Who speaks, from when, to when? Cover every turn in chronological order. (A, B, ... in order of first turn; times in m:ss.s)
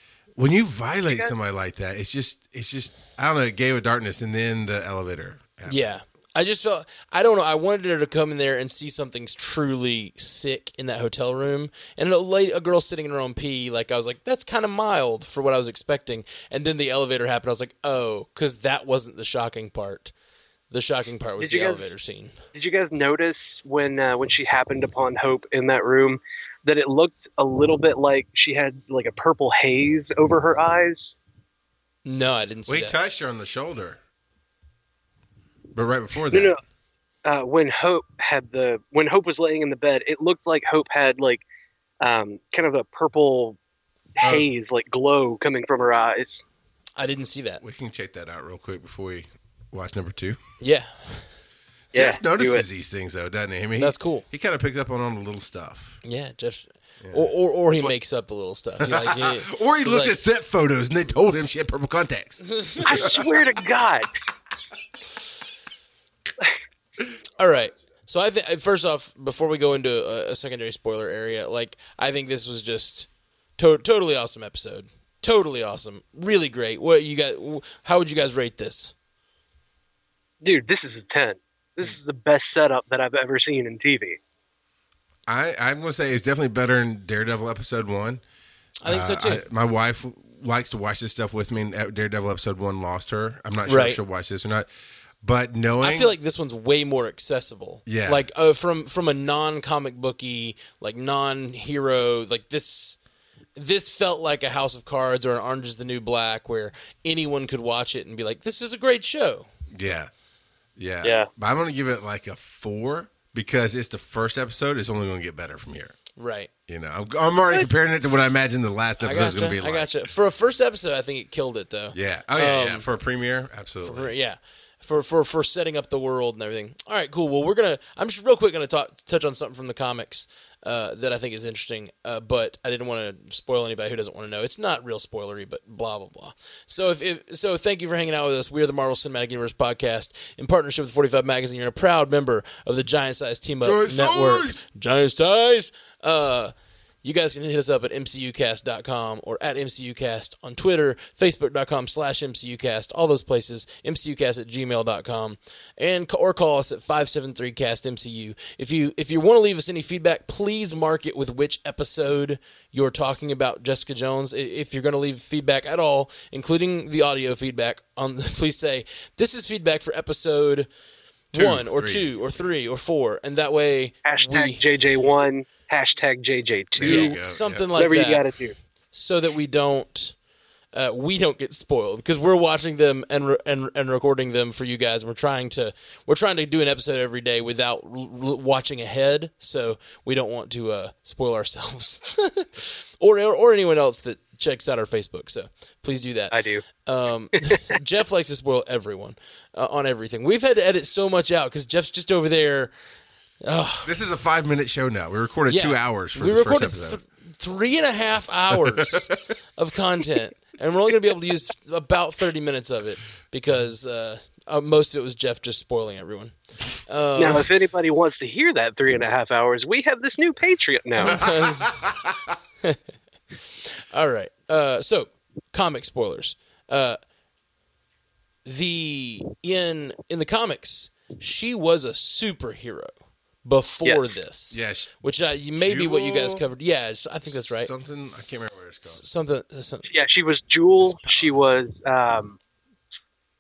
0:00.4-0:05.8 A
0:05.7-0:20.1 B
0:20.7-0:22.4 B
0:21.4-0:21.8 C
0:22.5-0:31.1 C
0:32.0-0:33.0 B
0:32.7-0:34.0 A
0:35.7-0:36.6 A
0:36.3-0:36.6 C
0:37.2-0:41.4 C
0:42.0-0:43.6 C
0:44.2-0:46.4 C
0:44.2-0:44.5 A
0:47.0-0:47.6 B
0:47.6-0:50.4 A
0:50.6-0:51.3 B
0:51.9-0:56.0 A
0:51.9-0:52.6 C
0:53.8-0:54.3 B
0:56.0-1:00.2 B
0:57.0-0:57.3 A
0:58.8-1:03.3 A
1:02.5-1:02.9 B
1:02.8-1:04.1 C
1:07.4-1:18.9 B
1:20.4-1:24.2 C
1:25.3-1:28.2 A
1:28.8-1:29.4 B
1:28.8-1:34.7 A
1:33.7-1:34.0 B
1:35.2-1:36.1 A
1:35.8-1:43.0 B
1:37.9-1:38.2 A
1:43.6-1:49.5 B
1:49.7-1:50.1 A
1:50.8-1:56.0 A
1:51.0-1:51.3 C
1:56.2-1:56.5 B
1:56.7-1:59.9 A
1:59.0-2:02.9 B
2:01.9-2:04.1 A
2:03.8-2:50.7 B
2:23.6-2:24.6 A
2:51.3-2:54.6 B
2:51.3-2:52.1 A
2:54.0-2:57.2 C
2:56.8-2:57.7 A
2:56.8-2:58.2 B
2:57.8-2:58.5 C
2:58.9-3:00.2 B
3:00.7-3:22.7 B
3:16.3-3:16.6 C
3:23.4-3:23.9 B
3:23.8-3:27.0 A
3:25.5-3:36.4 B
3:28.5-3:29.2 A
3:36.9-3:37.5 B
3:37.2-3:41.3 C
3:41.0-3:41.9 B
3:41.1-3:42.1 A
3:43.5-3:47.0 B
3:48.4-3:52.9 B
3:53.4-3:57.7 B
3:54.5-3:54.9 A
3:55.6-3:56.4 A
3:57.4-3:59.0 A
3:58.8-3:59.9 B
3:59.9-4:02.4 C
4:00.9-4:01.3 A